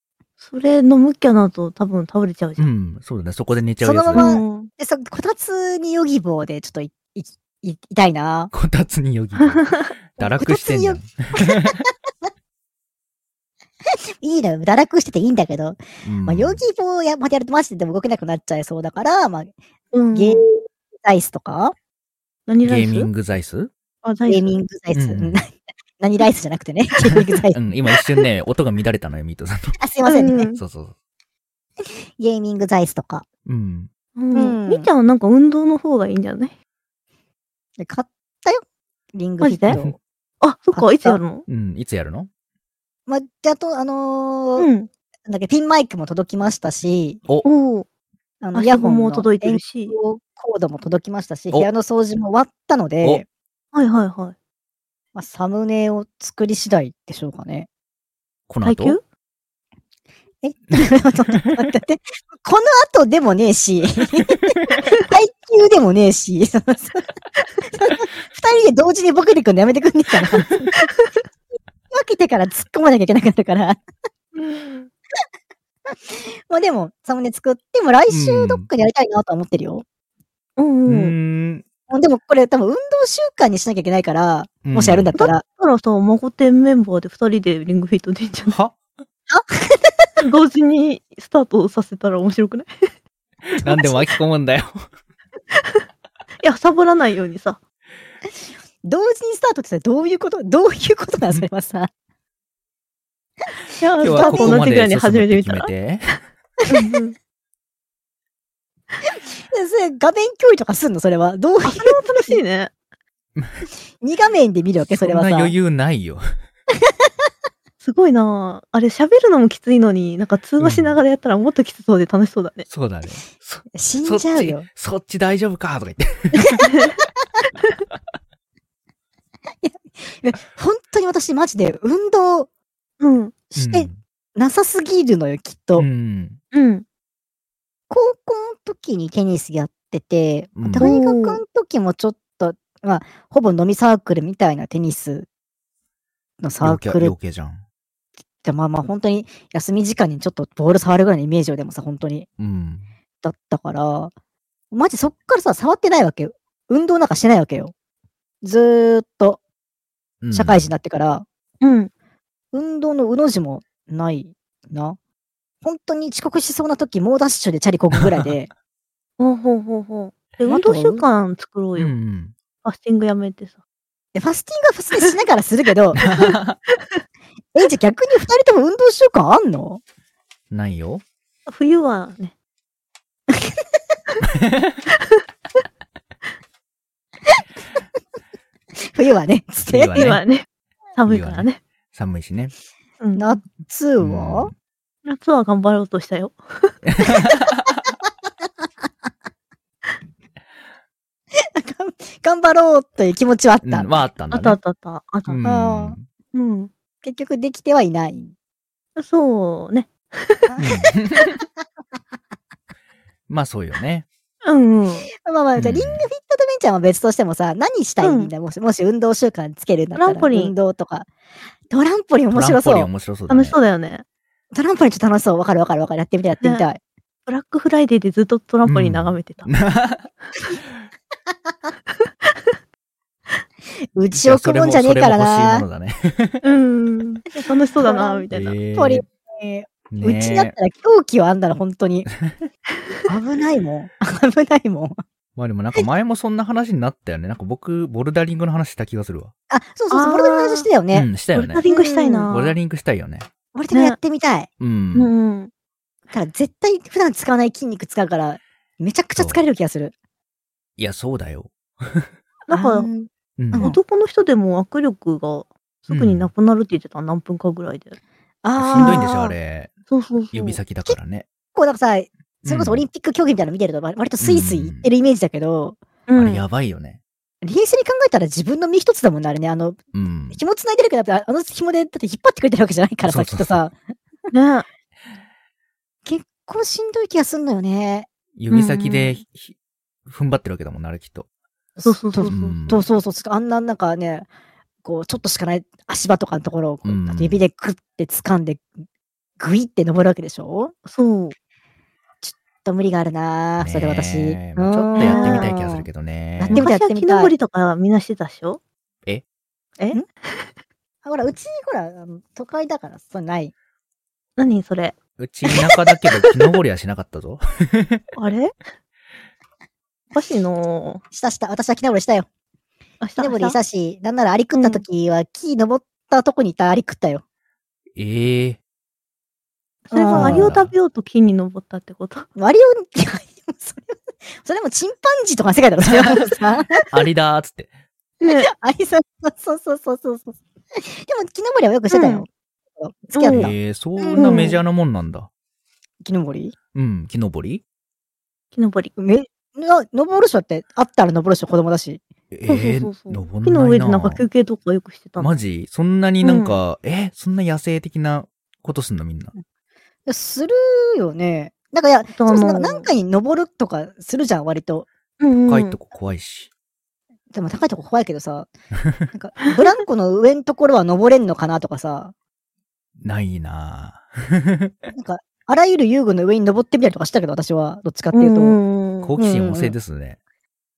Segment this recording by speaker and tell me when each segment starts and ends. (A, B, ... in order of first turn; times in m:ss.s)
0:00.4-0:02.7 A
0:02.6-0:04.4 B
0:03.8-0:08.5 C
0:04.1-0:04.7 A
0:08.5-0:11.8 B
0:09.4-0:09.9 A
0:10.2-0:12.3 C
0:14.2-0:19.5 C
0:16.0-0:16.6 B
0:19.9-0:20.6 A
0:20.1-0:20.5 C
0:21.0-0:21.7 C
0:22.5-0:23.1 A
0:22.6-0:23.7 B
0:24.0-0:24.5 A
0:24.2-0:27.6 C
0:24.9-0:25.4 B
0:27.1-0:29.8 B
0:29.8-0:30.5 C
0:30.0-0:30.6 A
0:30.6-0:30.9 B
0:31.8-0:33.2 C
0:33.4-0:33.9 B
0:34.2-0:36.5 A
0:34.3-0:34.9 C
0:37.8-0:38.6 C
0:39.1-0:40.0 C
0:39.4-0:39.8 A
0:39.7-0:39.9 B
0:40.4-0:41.4 A
0:40.7-0:41.2 C
0:41.5-0:42.3 B
0:43.1-0:44.7 C
0:44.6-0:44.9 A
0:45.3-0:47.2 C
0:47.4-0:47.8 A
0:48.4-0:53.2 C
0:48.5-0:49.9 A
0:53.7-0:54.3 A
0:55.1-0:57.7 C
0:58.5-0:59.0 B
0:58.6-0:59.0 A
1:00.4-1:07.0 C
1:07.7-1:10.7 C
1:10.7-1:11.1 A
1:11.9-1:13.8 C
1:14.3-1:14.9 A
1:16.1-1:19.8 C
1:18.1-1:18.6 B
1:20.6-1:21.2 A
1:20.9-1:21.6 B
1:21.9-1:25.4 C
1:24.6-1:25.1 B
1:25.2-1:28.6 A
1:28.5-1:28.7 B
1:29.3-1:30.1 C
1:30.2-1:32.8 A
1:33.5-1:34.8 B
1:33.6-1:34.0 C
1:35.5-1:35.8 A
1:36.4-1:37.6 A
1:38.8-1:41.9 C
1:43.8-1:44.6 C
1:43.8-1:45.7 A
1:44.0-1:46.2 B
1:46.7-1:47.2 A
1:49.1-1:52.4 C
1:51.6-1:52.7 A
1:53.4-1:53.6 B
1:54.0-1:55.5 C
1:54.8-1:56.3 B
1:57.8-2:02.7 A
2:00.6-2:01.0 B
2:02.7-2:06.5 B
2:03.7-2:04.6 C
2:06.4-2:06.6 C
2:09.6-2:12.5 C
2:13.0-2:13.3 A
2:13.5-2:15.8 C
2:13.6-2:14.0 B
2:15.8-2:16.4 B
2:16.5-2:16.8 A
2:17.9-2:25.3 C
2:20.6-2:20.9 B
2:20.8-2:21.4 A
2:26.4-2:27.1 C
2:26.6-2:27.6 B
2:28.4-2:32.3 C
2:32.4-2:32.9 B
2:33.2-2:34.1 C
2:34.7-2:37.7 C
2:38.4-2:39.4 C
2:40.2-2:40.7 B
2:40.3-2:41.2 C
2:41.6-2:41.9 A
2:42.5-2:45.0 C
2:45.6-2:48.5 C
2:47.9-2:48.3 B
2:49.2-2:51.9 A
2:50.4-2:51.0 C
2:51.8-2:52.3 B
2:52.6-2:53.5 A
2:54.1-2:56.0 C
2:56.0-2:56.6 B
2:57.5-2:59.8 C
3:00.5-3:01.0 B
3:01.5-3:02.3 A
3:04.2-3:04.8 B
3:04.9-3:05.2 A
3:08.9-3:10.1 C
3:09.7-3:10.2 B
3:09.9-3:10.4 A
3:11.0-3:11.6 A
3:11.0-3:12.5 B
3:13.0-3:13.3 A
3:13.2-3:14.5 C
3:14.0-3:14.5 B
3:15.0-3:16.7 A
3:16.8-3:17.8 B
3:21.3-3:24.0 C
3:23.6-3:24.6 B
3:24.3-3:25.4 A
3:25.3-3:26.0 B
3:25.4-3:26.0 C
3:26.3-3:26.7 A
3:27.0-3:28.3 C
3:29.0-3:30.5 A
3:30.5-3:30.9 C
3:30.6-3:31.4 B
3:33.3-3:34.0 B
3:34.4-3:35.1 A
3:35.2-3:41.1 C
3:35.6-3:36.1 B
3:38.0-3:38.3 A
3:40.0-3:40.5 A
3:41.7-3:42.9 C
3:42.3-3:43.6 B
3:43.3-3:44.0 A
3:44.5-3:46.8 C
3:47.3-3:49.5 A
3:48.6-3:50.0 B
3:53.9-3:55.6 C
3:54.1-3:56.4 B
3:56.4-3:58.5 A
3:57.8-4:02.1 C
3:58.3-3:59.0 B
3:59.9-4:00.5 B
4:03.1-4:05.0 C
4:05.4-4:09.3 B
4:09.5-4:11.1 C
4:09.9-4:10.7 A
4:10.9-4:11.6 B
4:11.3-4:12.5 A
4:11.7-4:12.3 C
4:12.3-4:13.3 B
4:13.5-4:14.5 C
4:13.7-4:14.0 A
4:14.6-4:15.1 B
4:14.9-4:15.5 A
4:16.1-4:19.9 C
4:20.8-4:22.1 B
4:22.5-4:22.9 A
4:22.5-4:23.8 C
4:23.4-4:23.7 B
4:23.6-4:28.0 A
4:25.9-4:26.3 B
4:28.4-4:29.3 C
4:28.6-4:29.7 B
4:28.8-4:29.1 A
4:29.9-4:30.6 A
4:30.3-4:31.2 B
4:31.5-4:35.8 C
4:32.4-4:32.8 B
4:34.2-4:34.9 B
4:36.1-4:36.4 A
4:36.2-4:37.0 B
4:37.4-4:39.8 C
4:39.9-4:40.4 B
4:40.3-4:43.7 C
4:43.0-4:43.6 B
4:44.3-4:44.6 A
4:46.0-4:48.1 C
4:48.4-4:49.5 B
4:48.5-4:49.1 A
4:50.0-4:51.2 B
4:51.8-4:54.3 C
4:51.8-4:52.5 A
4:52.3-4:52.8 B
4:54.8-4:58.7 C
4:56.8-4:57.4 B
4:59.4-5:00.7 C
5:00.8-5:01.3 A
5:02.2-5:05.8 C
5:03.6-5:06.6 B
5:05.0-5:05.5 A
5:06.4-5:07.3 C
5:06.5-5:08.6 A
5:11.0-5:13.5 C
5:14.4-5:14.9 A
5:15.2-5:18.0 B
5:15.5-5:16.3 A
5:18.1-5:18.5 A
5:20.1-5:21.0 A
5:21.1-5:22.3 C
5:23.0-5:23.6 A
5:23.2-5:27.2 C
5:24.6-5:24.8 A
5:27.9-5:28.6 B
5:29.9-5:30.5 C
5:29.9-5:32.3 A
5:30.1-5:30.7 B
5:32.4-5:36.8 C
5:36.9-5:37.7 B
5:38.2-5:38.5 A
5:38.2-5:44.4 C
5:41.9-5:42.2 A
5:43.1-5:43.5 A
5:43.3-5:45.3 B
5:44.2-5:44.6 A
5:46.0-5:46.5 C
5:46.7-5:47.6 B
5:48.5-5:48.9 A
5:49.0-5:52.0 C
5:52.3-5:54.2 B
5:52.5-5:55.4 A
5:55.2-5:59.3 B
5:56.2-5:56.6 A
6:00.0-6:04.9 C
6:02.2-6:02.9 A
6:05.2-6:05.8 A
6:05.5-6:06.5 B
6:07.3-6:08.5 C
6:09.1-6:12.1 C
6:13.0-6:14.7 B
6:14.9-6:18.6 C
6:18.1-6:19.1 A
6:19.0-6:20.2 B
6:19.2-6:19.7 C